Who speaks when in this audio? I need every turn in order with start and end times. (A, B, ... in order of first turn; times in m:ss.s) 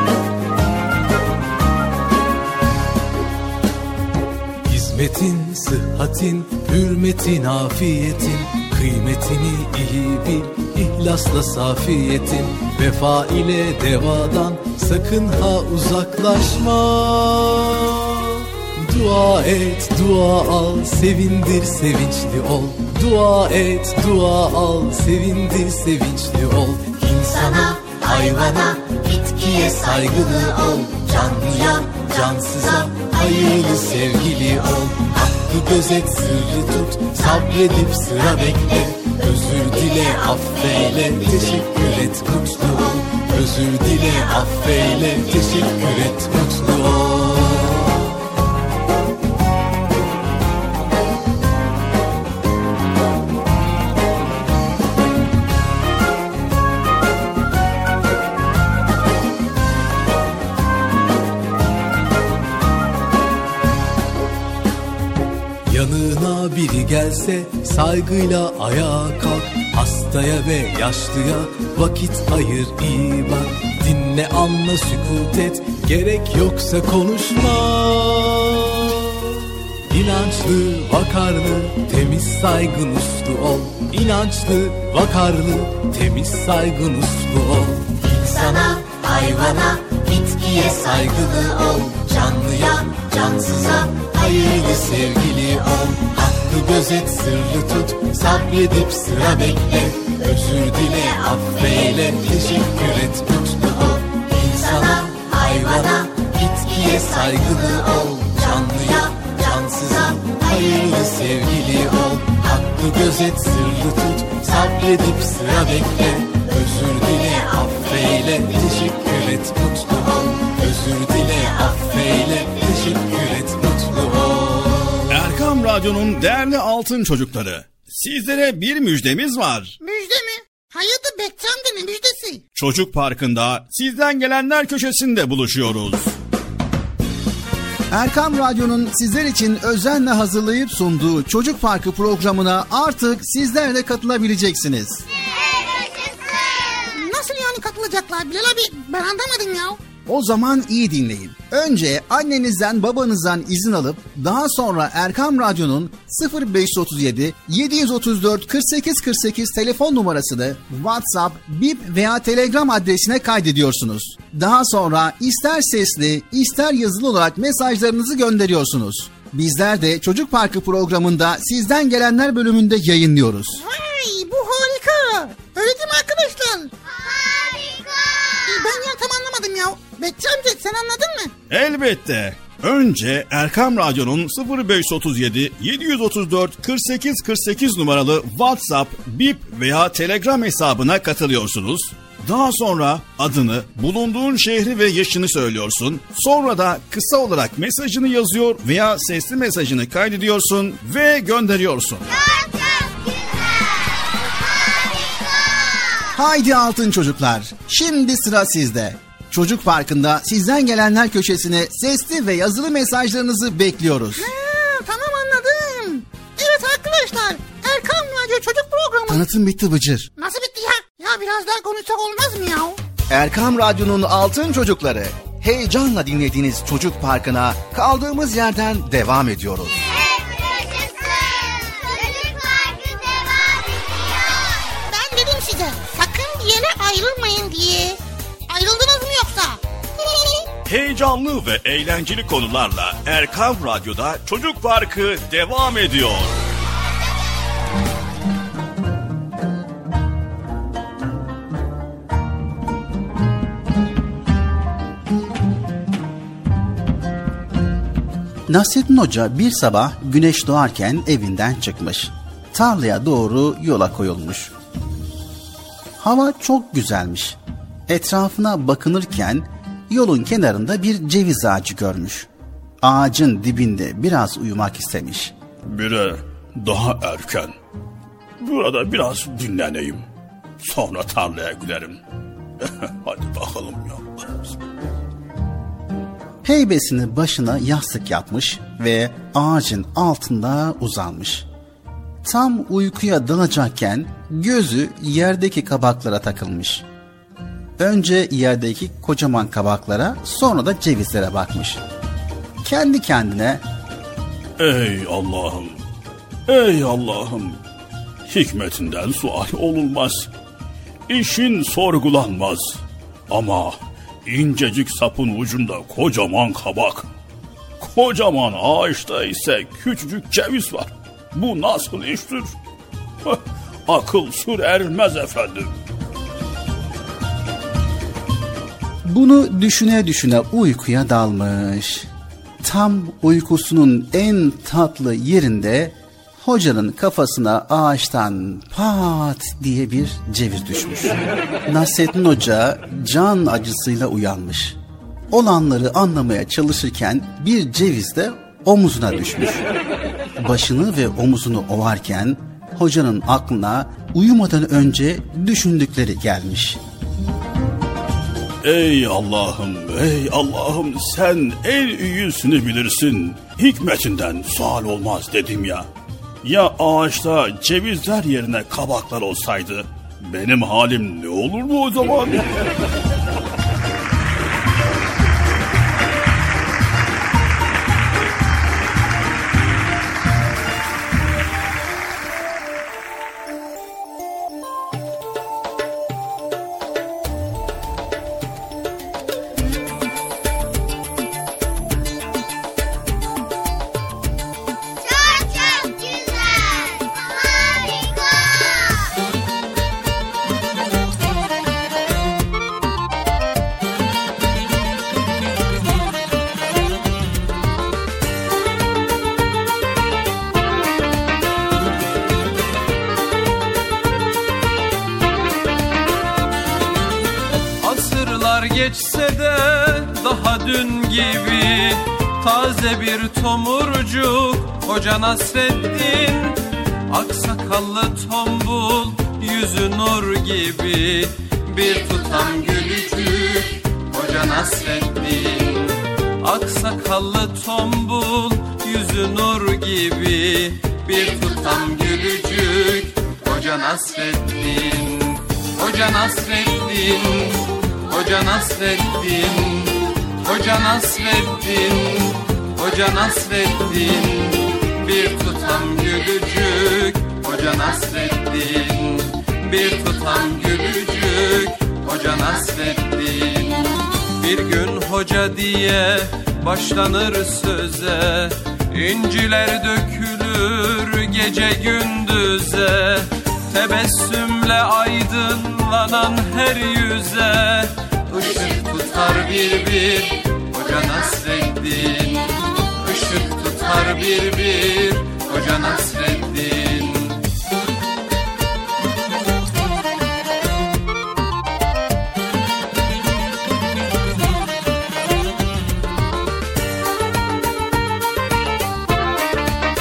0:04.6-0:47.9 A
1:05.7-1:18.9 A
1:19.9-2:05.0 A
2:05.1-2:09.8 B
2:09.8-2:12.4 C
2:12.6-2:16.1 B
2:17.9-2:25.1 D
2:26.9-2:29.8 C
2:30.1-2:53.6 D
2:53.6-2:56.7 C
2:58.5-3:01.3 C
3:01.5-3:22.1 B
3:22.3-3:22.9 E
3:26.1-3:34.3 D
3:34.2-3:39.2 C
3:39.1-3:40.1 D
3:40.2-3:42.8 C
3:43.1-3:49.8 D
3:51.7-3:53.6 E
3:54.9-3:58.0 C
3:58.5-3:59.6 C
4:00.7-4:06.4 B
4:18.5-4:24.5 D
4:26.0-4:27.4 D
4:27.9-4:32.3 D
4:32.8-4:35.3 D
4:35.7-4:37.5 B
4:38.4-4:40.0 B
4:40.6-4:42.0 B
4:42.6-4:44.6 B
4:46.4-4:51.5 D
4:52.2-4:56.8 D
4:57.8-5:01.8 D
5:02.6-5:03.6 D
5:04.6-5:05.8 B
5:06.5-5:07.6 B
5:08.3-5:10.3 B
5:11.1-5:17.1 B
5:17.8-5:22.5 B
5:23.2-5:25.7 B
5:29.0-5:32.1 D
5:32.6-5:44.8 D
5:45.3-5:49.6 D
5:50.4-5:56.8 D
5:58.6-6:05.9 B
6:06.4-6:12.7 B
6:35.2-6:37.0 E
6:37.6-6:38.1 E
6:57.8-8:07.4 F